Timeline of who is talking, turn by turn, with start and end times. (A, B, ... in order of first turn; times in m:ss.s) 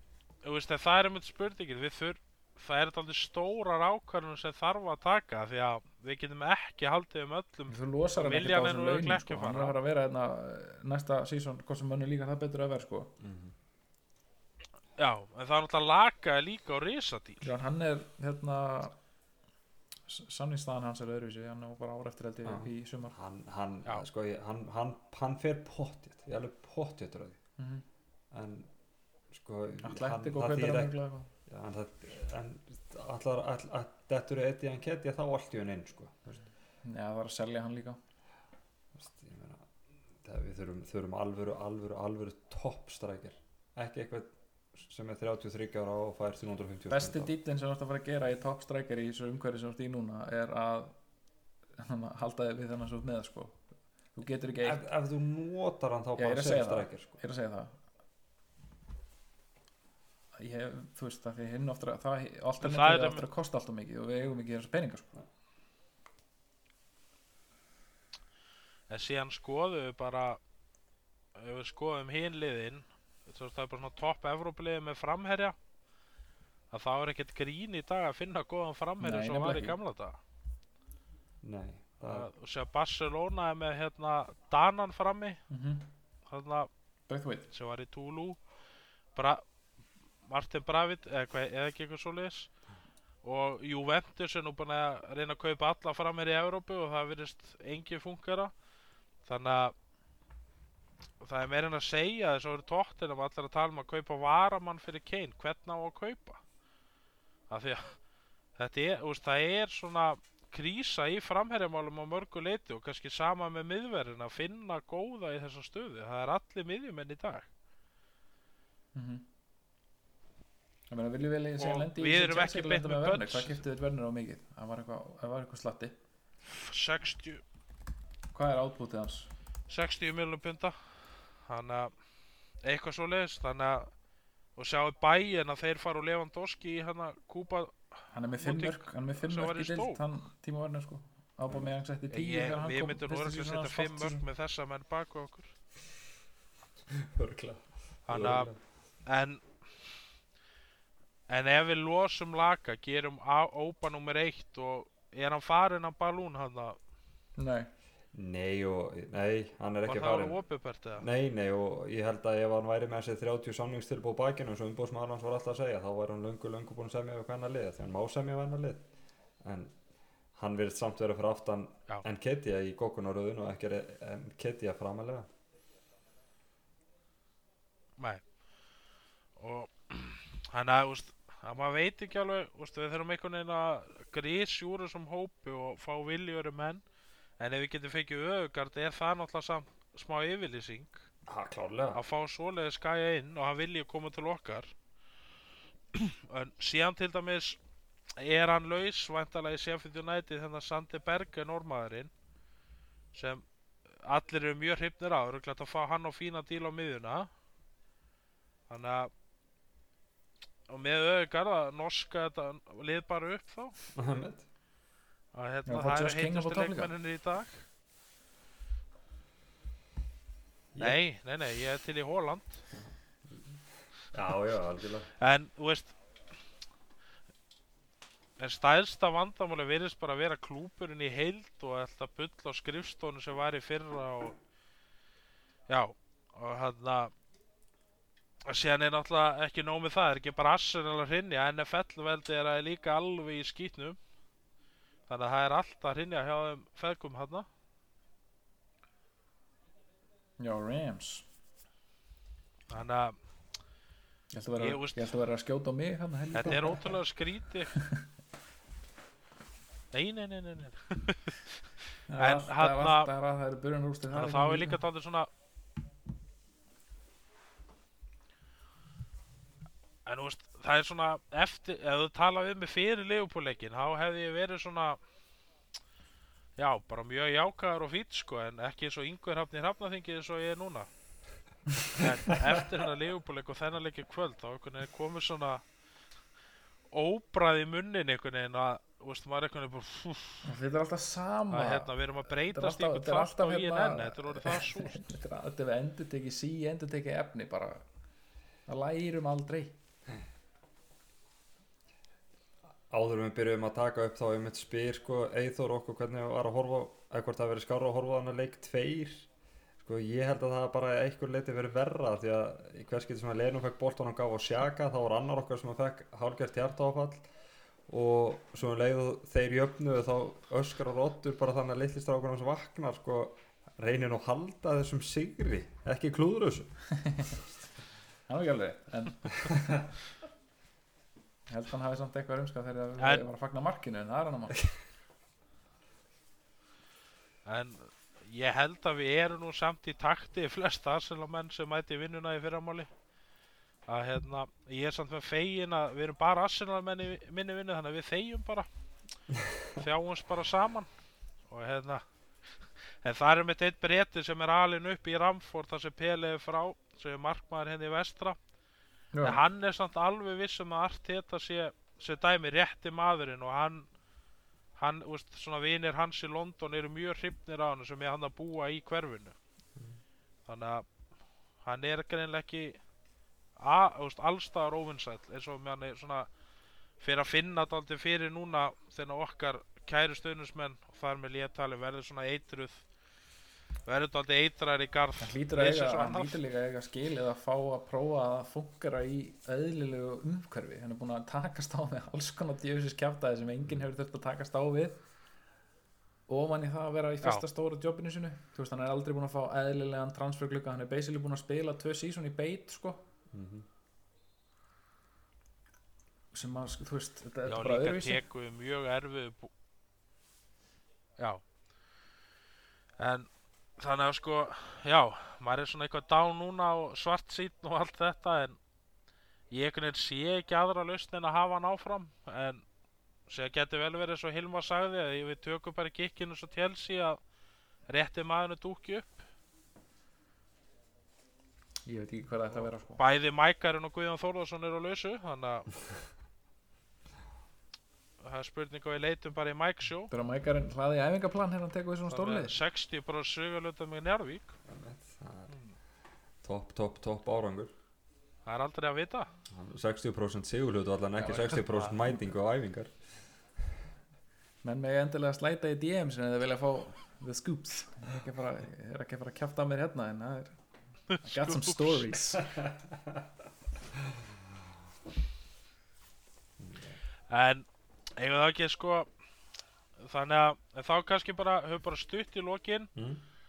0:00.4-0:09.8 A
0:07.7-0:13.1 B
0:13.2-0:13.6 C
0:15.0-0:17.5 A
0:17.4-0:18.9 B
0:20.1-0:23.1 B
0:22.4-0:27.4 C
0:27.6-0:27.8 B
0:28.3-0:28.7 C
0:29.3-0:30.9 C
0:29.8-0:31.3 B
0:31.5-0:36.5 C
0:36.8-0:38.0 B
0:39.0-0:39.7 C
0:40.2-0:47.3 C
0:46.9-0:50.9 B
0:51.8-0:53.6 B
0:54.1-0:54.8 B
0:54.6-0:57.2 C
0:56.2-0:57.7 B
1:00.4-1:05.1 B
1:02.6-1:03.3 A
1:08.9-1:10.4 A
1:11.4-1:15.6 A
1:16.7-1:20.2 A
1:19.0-1:19.8 B
1:21.4-1:22.3 C
1:22.0-1:25.4 A
1:25.5-1:25.8 B
1:26.3-1:26.7 A
1:27.1-1:27.5 B
1:27.5-1:28.4 A
1:29.1-1:29.4 A
1:30.3-1:32.5 A
1:33.2-1:38.5 A
1:39.2-1:39.7 A
1:41.2-1:46.4 A
1:47.5-1:48.0 A
1:48.6-1:57.5 A
1:58.9-1:59.2 B
2:00.9-2:06.0 B
2:01.6-2:03.6 A
2:06.4-2:07.4 A
2:08.3-2:09.3 B
2:09.7-2:11.9 A
2:12.6-2:13.9 A
2:14.6-2:20.0 A
2:18.1-2:24.2 B
2:22.1-2:25.5 A
2:26.9-2:28.6 C
2:28.1-2:28.5 A
2:29.0-2:29.6 A
2:31.3-2:36.8 A
2:37.4-2:37.7 B
2:38.1-2:40.4 C
2:39.8-2:41.0 A
2:41.0-2:48.8 C
2:49.4-2:49.7 C
2:50.3-2:55.3 C
2:58.0-2:58.2 A
2:59.4-3:06.8 A
3:07.4-3:11.1 A
3:11.2-3:12.0 C
3:11.9-3:14.7 A
3:15.9-3:17.6 A
3:18.2-3:22.1 A
3:23.1-3:23.4 A
3:24.0-3:27.3 A
3:28.7-3:29.1 A
3:30.7-3:33.7 A
3:33.9-3:34.4 C
3:35.3-3:37.6 A
3:35.7-3:36.9 B
3:40.8-3:42.6 A
3:42.7-3:43.6 C
3:44.1-3:45.1 C
3:45.2-3:45.9 A
3:48.4-3:54.4 A
3:55.7-3:57.1 A
3:58.4-4:04.0 A
4:05.1-4:07.5 A
4:10.4-4:11.2 B
4:12.7-4:13.2 A
4:14.3-4:17.0 B
4:14.6-4:15.1 A
4:16.3-4:17.7 A
4:17.7-4:18.0 B
4:19.9-4:23.1 A
4:22.1-4:24.8 B
4:24.1-4:25.3 A
4:30.0-4:35.0 A
4:36.6-4:40.9 A
4:41.9-4:45.6 A
4:46.9-4:50.5 A
4:50.4-4:57.8 B
4:51.5-4:55.0 A
4:58.7-4:59.8 B
5:02.9-5:09.3 C
5:09.8-5:17.3 C
5:17.9-5:26.8 C
5:26.9-5:27.4 B
5:28.3-5:29.8 B
5:31.5-5:34.6 B
5:33.0-5:33.2 A
5:37.4-5:42.9 A
5:43.9-5:48.7 A
5:49.3-5:49.8 C
5:49.8-5:50.9 A
5:51.5-5:52.0 A
5:52.6-5:58.4 A
5:59.1-5:59.4 B
5:59.2-6:03.9 A
6:04.8-6:09.4 A
6:10.5-6:10.9 A
6:11.6-6:12.8 A
6:13.6-6:16.3 A
6:17.0-6:22.8 A
6:23.8-6:26.4 A
6:25.2-6:35.0 B
6:36.3-6:43.0 B
6:43.3-6:43.6 C
6:46.3-6:48.2 B
6:47.4-6:49.5 A
6:53.0-6:58.6 A
6:59.5-7:02.6 A
7:03.3-7:07.2 A
7:07.9-7:09.2 A
7:11.8-7:13.0 B
7:12.5-7:15.7 A
7:18.2-7:20.1 A
7:20.1-7:22.6 B
7:22.1-7:24.6 A
7:24.6-7:25.5 C
7:25.5-7:25.8 A
7:26.4-7:27.7 C
7:28.4-7:29.3 A
7:29.5-7:32.9 C
7:31.3-7:31.6 B
7:31.5-7:31.9 A
7:34.6-7:40.6 B
7:41.1-7:42.1 A
7:41.2-7:42.6 B
7:42.6-7:43.2 C
7:46.6-7:47.0 C
7:47.3-7:49.1 A
7:50.0-7:52.9 A
7:52.9-7:53.2 C